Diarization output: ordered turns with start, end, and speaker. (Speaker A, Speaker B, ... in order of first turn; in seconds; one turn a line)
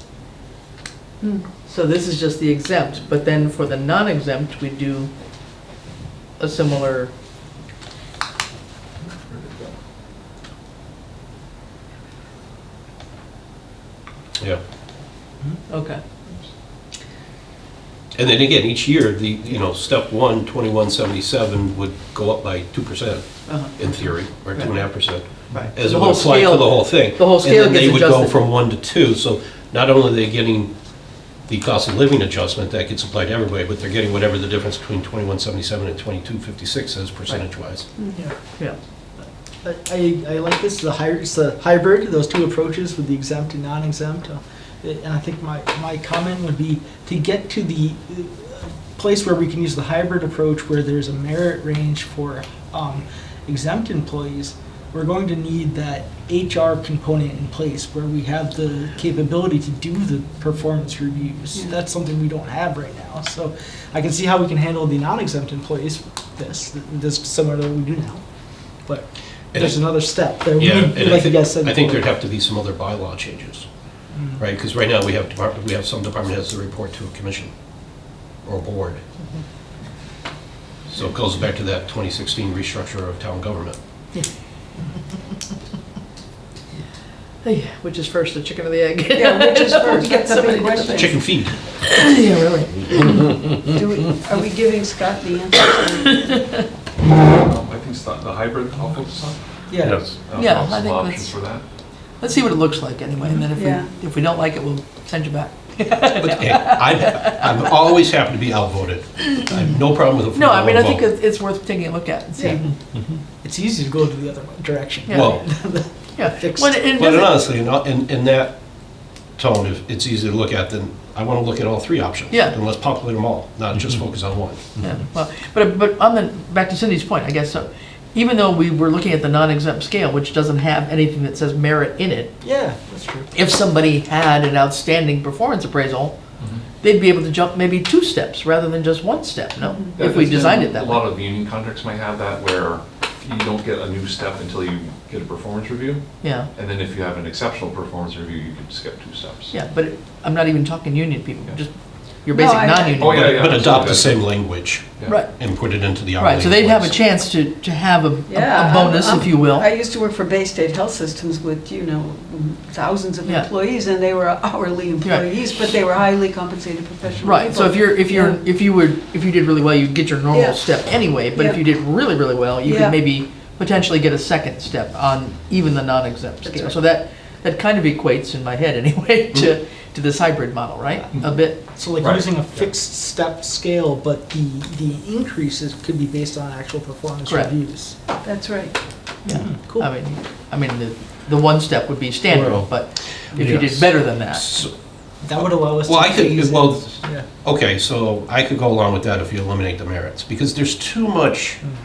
Speaker A: 1.6-5.1
Speaker A: 6.4-7.1
Speaker B: 9.3-9.7
Speaker A: 15.7-16.0
Speaker C: 18.2-30.7
Speaker A: 23.5-24.8
Speaker A: 25.5-28.4
Speaker C: 31.5-37.9
Speaker D: 39.6-68.2
Speaker D: 68.9-72.1
Speaker C: 69.5-69.9
Speaker C: 70.6-73.7
Speaker D: 74.1-74.4
Speaker C: 74.4-77.5
Speaker C: 78.5-79.0
Speaker C: 80.9-83.8
Speaker A: 87.4-93.5
Speaker E: 89.2-91.2
Speaker C: 90.9-91.6
Speaker E: 93.7-96.2
Speaker A: 96.2-96.6
Speaker B: 97.3-101.6
Speaker D: 99.7-100.0
Speaker A: 100.3-101.3
Speaker A: 102.2-107.5
Speaker E: 103.3-103.9
Speaker C: 106.2-111.0
Speaker A: 110.3-112.6
Speaker D: 112.4-112.7
Speaker D: 113.4-116.8
Speaker A: 115.1-115.4
Speaker C: 115.1-115.5
Speaker A: 116.2-117.4
Speaker C: 116.9-118.6
Speaker C: 119.4-124.8
Speaker A: 122.3-122.6
Speaker A: 124.8-132.4
Speaker D: 132.4-133.3
Speaker A: 133.3-136.2
Speaker A: 136.8-141.1
Speaker E: 139.6-139.9
Speaker B: 140.0-146.0
Speaker A: 146.2-146.5
Speaker B: 146.5-149.5
Speaker A: 149.5-153.4
Speaker E: 152.4-153.2
Speaker B: 153.0-154.2
Speaker C: 153.2-157.0
Speaker A: 156.2-159.7
Speaker E: 158.3-168.4
Speaker A: 165.0-165.3
Speaker A: 167.2-181.6
Speaker E: 170.3-170.7
Speaker E: 171.3-171.7
Speaker E: 172.6-173.0
Speaker E: 176.4-176.8
Speaker D: 181.7-188.2
Speaker B: 182.0-182.3
Speaker A: 187.3-187.5
Speaker E: 188.2-188.8
Speaker D: 189.2-189.9
Speaker A: 189.2-194.6
Speaker C: 192.3-192.7
Speaker C: 193.4-194.7
Speaker D: 195.2-197.2
Speaker C: 195.8-201.6